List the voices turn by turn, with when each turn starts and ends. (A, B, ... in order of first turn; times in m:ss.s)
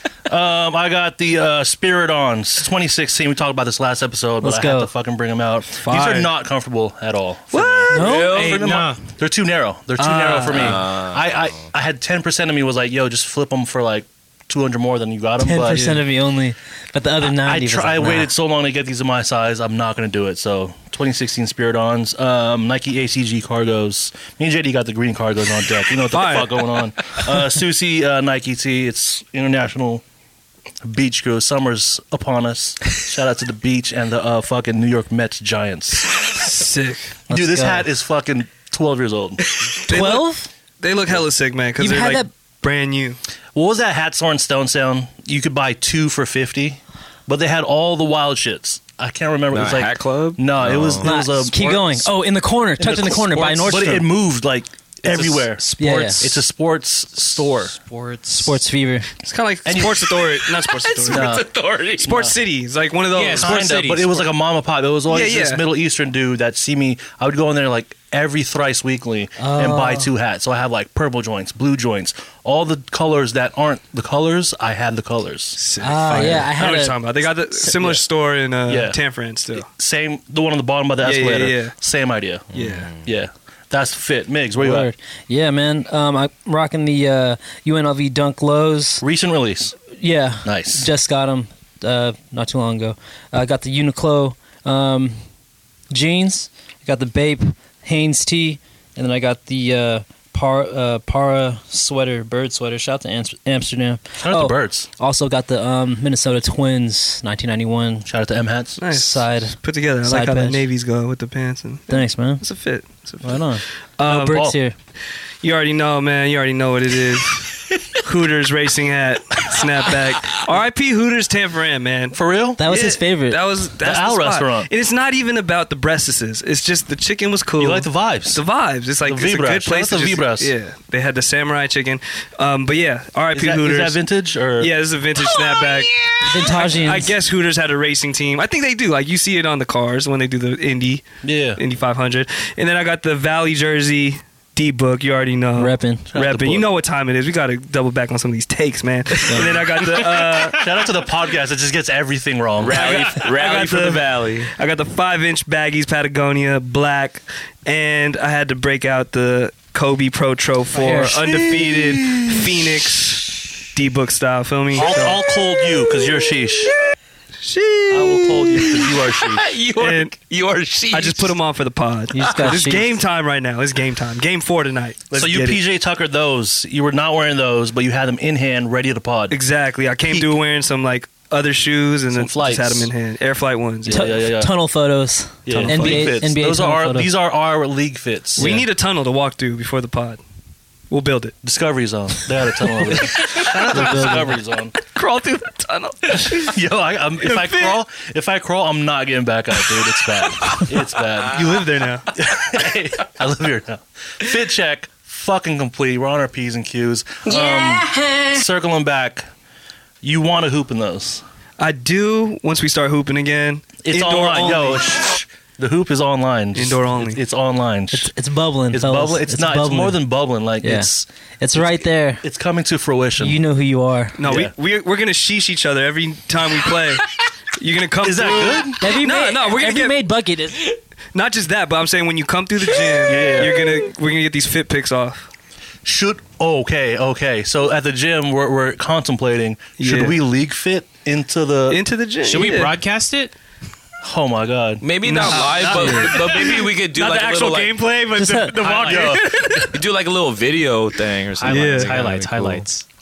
0:00.3-0:15.9 A
0:04.4-0:04.9 B
0:05.8-0:06.3 C
0:07.5-0:08.3 C
0:07.9-0:08.4 B
0:07.9-0:08.6 D
0:08.3-0:09.0 E
0:10.0-0:10.8 C
0:10.5-0:11.6 D
0:15.4-0:18.3 B
0:15.7-0:16.0 C
0:17.2-0:30.0 A
0:26.1-0:26.7 C
0:30.8-0:36.2 A
0:36.2-0:37.2 C
0:37.3-0:37.9 B
0:37.3-0:39.4 A
0:39.8-0:43.2 C
0:39.9-0:40.5 B
0:41.8-0:42.3 B
0:43.5-0:52.1 A
0:49.5-0:51.1 D
0:51.0-0:54.1 B
0:52.8-0:57.8 A
0:55.6-0:56.4 B
0:57.5-0:58.6 E
0:58.3-0:59.1 B
0:59.2-1:01.4 C
0:59.6-1:00.1 A
1:00.2-1:02.2 D
1:01.1-1:01.5 A
1:02.0-1:03.6 C
1:02.0-1:02.3 A
1:03.1-1:04.3 E
1:03.4-1:15.6 A
1:05.1-1:05.6 C
1:09.4-1:10.1 B
1:15.6-1:19.7 C
1:15.8-1:18.0 B
1:16.1-1:16.4 A
1:18.7-1:19.0 A
1:19.6-1:22.5 A
1:21.0-1:21.7 C
1:22.5-1:22.9 C
1:22.5-1:23.0 D
1:23.0-1:24.9 A
1:24.6-1:29.0 B
1:29.0-1:29.8 A
1:29.9-1:35.2 B
1:30.4-1:30.9 A
1:35.9-1:48.0 B
1:44.2-1:44.9 A
1:48.0-1:48.8 A
1:48.8-1:53.4 C
1:48.9-1:50.6 B
1:51.9-1:52.4 B
1:53.2-1:54.7 B
1:54.0-1:54.5 C
1:54.1-1:54.6 A
1:55.4-2:14.0 C
2:02.1-2:02.6 A
2:02.6-2:03.4 B
2:03.8-2:04.7 A
2:07.6-2:08.4 A
2:09.0-2:10.5 A
2:13.3-2:14.7 A
2:14.6-2:21.0 C
2:16.2-2:17.1 B
2:21.2-2:21.6 A
2:21.6-2:30.7 C
2:25.5-2:26.1 B
2:26.1-2:26.6 A
2:29.3-2:29.6 B
2:30.2-2:32.8 A
2:32.6-2:34.5 D
2:32.7-2:45.2 C
2:40.8-2:41.8 B
2:40.8-2:42.4 A
2:44.8-2:46.7 A
2:47.4-2:48.9 C
2:47.9-2:49.5 A
2:49.3-2:51.3 D
2:49.7-2:50.1 C
2:50.9-2:55.6 C
2:52.1-2:52.9 B
2:52.2-2:52.6 D
2:55.1-2:59.4 A
2:59.3-3:04.2 C
3:00.1-3:00.4 A
3:02.1-3:02.9 A
3:03.9-3:04.5 A
3:03.9-3:07.1 B
3:05.4-3:08.5 A
3:05.5-3:06.2 C
3:08.4-3:08.6 B
3:08.4-3:10.2 C
3:10.9-3:11.3 C
3:11.4-3:14.7 A
3:12.8-3:13.9 C
3:13.0-3:14.4 B
3:14.8-3:16.6 C
3:16.2-3:21.4 A
3:17.2-3:17.8 C
3:19.6-3:22.1 C
3:22.1-3:29.2 A
3:27.3-3:28.4 B
3:30.0-3:31.2 A
3:31.6-3:34.8 C
3:33.8-3:38.1 A
3:36.5-3:37.2 C
3:37.9-3:40.0 B
3:38.7-3:43.4 A
3:40.6-3:40.9 B
3:41.4-3:42.2 B
3:43.2-3:44.2 B
3:44.2-3:49.9 C
3:44.2-3:44.5 A
3:48.0-3:48.8 A
3:48.8-3:50.7 B
3:51.1-3:55.3 C
3:53.0-3:53.5 A
3:55.8-4:01.8 A
3:59.8-4:00.2 C
4:01.7-4:02.7 C
4:02.2-4:03.3 E
4:04.0-4:04.8 A
4:04.8-4:07.8 D
4:05.0-4:09.8 C
4:05.3-4:06.2 B
4:08.2-4:08.7 B
4:08.6-4:12.6 D
4:08.7-4:09.6 A
4:11.4-4:12.8 E
4:11.4-4:12.0 C